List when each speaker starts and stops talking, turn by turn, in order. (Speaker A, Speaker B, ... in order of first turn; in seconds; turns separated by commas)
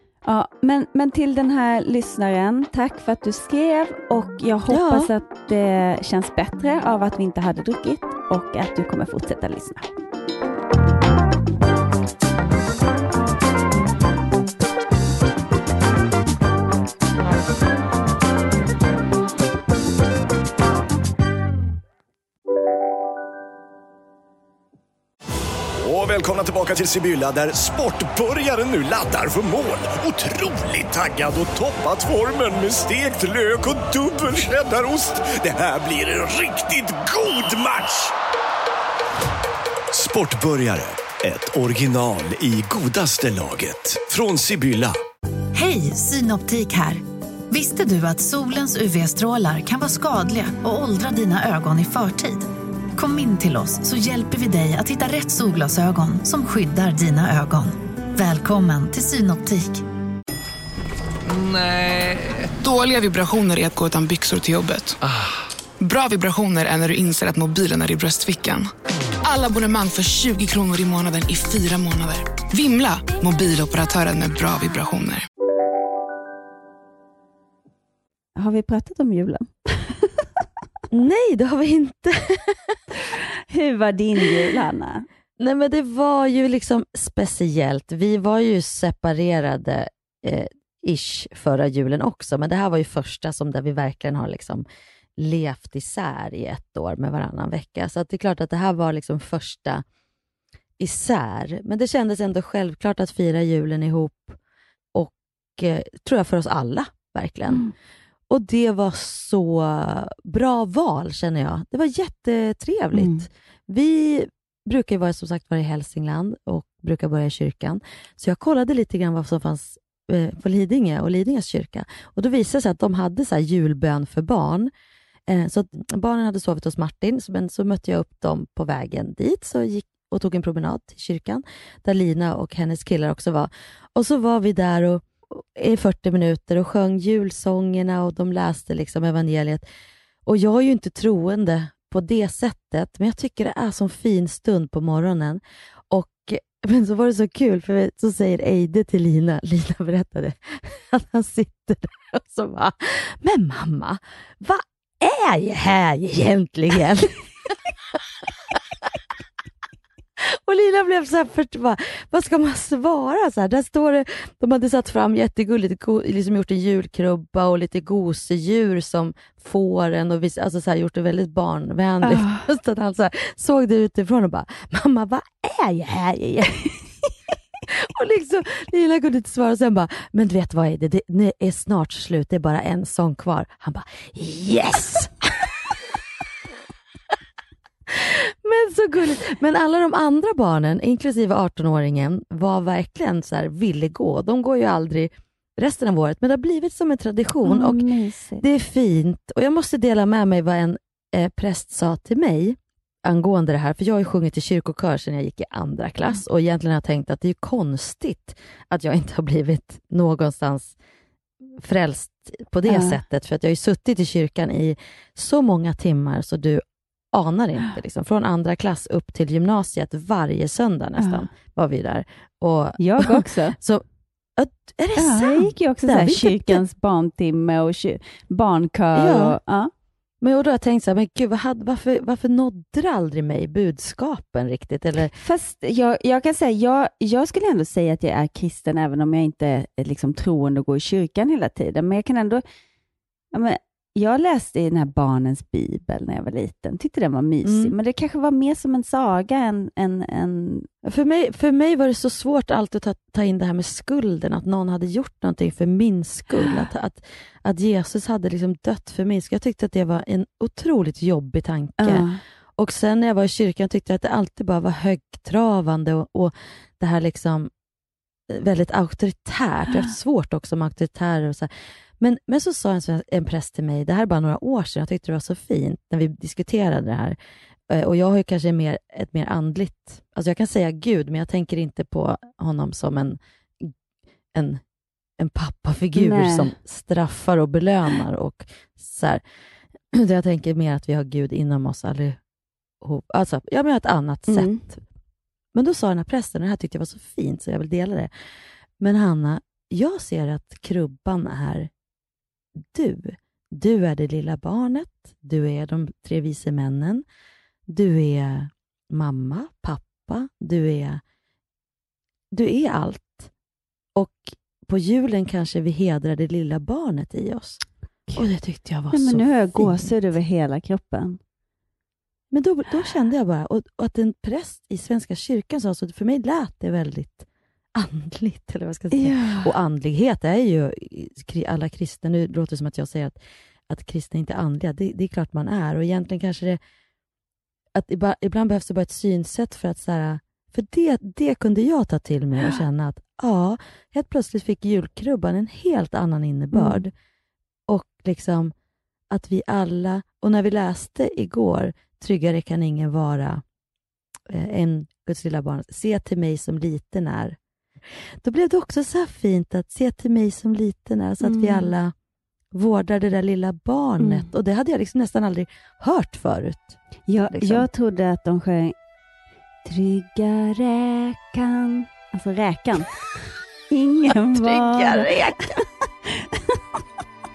Speaker A: 0.2-9.9, Speaker B: 4.7-5.1, Speaker C: 25.8-38.1, Speaker C: 39.9-44.9, Speaker D: 45.5-59.8, Speaker E: 61.3-65.0, Speaker E: 65.8-68.7, Speaker E: 69.2-75.2, Speaker A: 78.3-80.2, Speaker B: 80.9-82.8, Speaker A: 83.5-85.0, Speaker B: 85.4-94.6, Speaker B: 95.2-99.8, Speaker B: 100.8-104.4, Speaker B: 104.9-107.7, Speaker B: 108.3-124.7, Speaker A: 112.9-113.2, Speaker B: 125.3-139.6, Speaker B: 140.2-157.5, Speaker B: 160.2-176.7, Speaker A: 172.0-172.4, Speaker B: 177.7-185.7, Speaker B: 187.9-197.9, Speaker A: 197.4-198.4, Speaker B: 198.4-210.7, Speaker B: 211.6-223.8, Speaker A: 212.7-213.0, Speaker A: 221.0-221.3, Speaker A: 222.8-223.6, Speaker B: 224.4-226.6, Speaker A: 224.9-229.7, Speaker B: 228.9-229.4, Speaker B: 230.2-235.1, Speaker A: 235.1-242.4, Speaker A: 243.3-250.7, Speaker B: 247.4-247.7, Speaker B: 250.8-267.5, Speaker A: 261.8-262.2, Speaker B: 268.3-277.2, Speaker B: 277.7-283.7, Speaker B: 284.3-284.6, Speaker B: 285.2-289.2, Speaker A: 285.9-286.5, Speaker B: 289.9-292.2, Speaker B: 292.8-294.8, Speaker A: 294.3-294.7, Speaker B: 295.5-298.1, Speaker B: 298.8-301.7, Speaker B: 302.6-307.0, Speaker B: 307.7-311.0, Speaker B: 312.3-313.3, Speaker B: 313.9-317.6, Speaker B: 318.1-320.0, Speaker A: 318.9-321.2, Speaker B: 322.3-333.2, Speaker A: 328.9-329.5, Speaker B: 333.7-336.6, Speaker B: 337.7-346.9, Speaker A: 346.5-346.8, Speaker B: 347.7-348.5, Speaker B: 349.1-353.4, Speaker B: 354.3-357.4, Speaker B: 358.2-361.9, Speaker A: 361.2-361.7, Speaker B: 362.5-366.8, Speaker A: 364.0-364.3, Speaker A: 367.1-368.7, Speaker B: 367.3-367.7, Speaker A: 369.6-372.9, Speaker A: 373.7-376.6, Speaker B: 374.3-375.6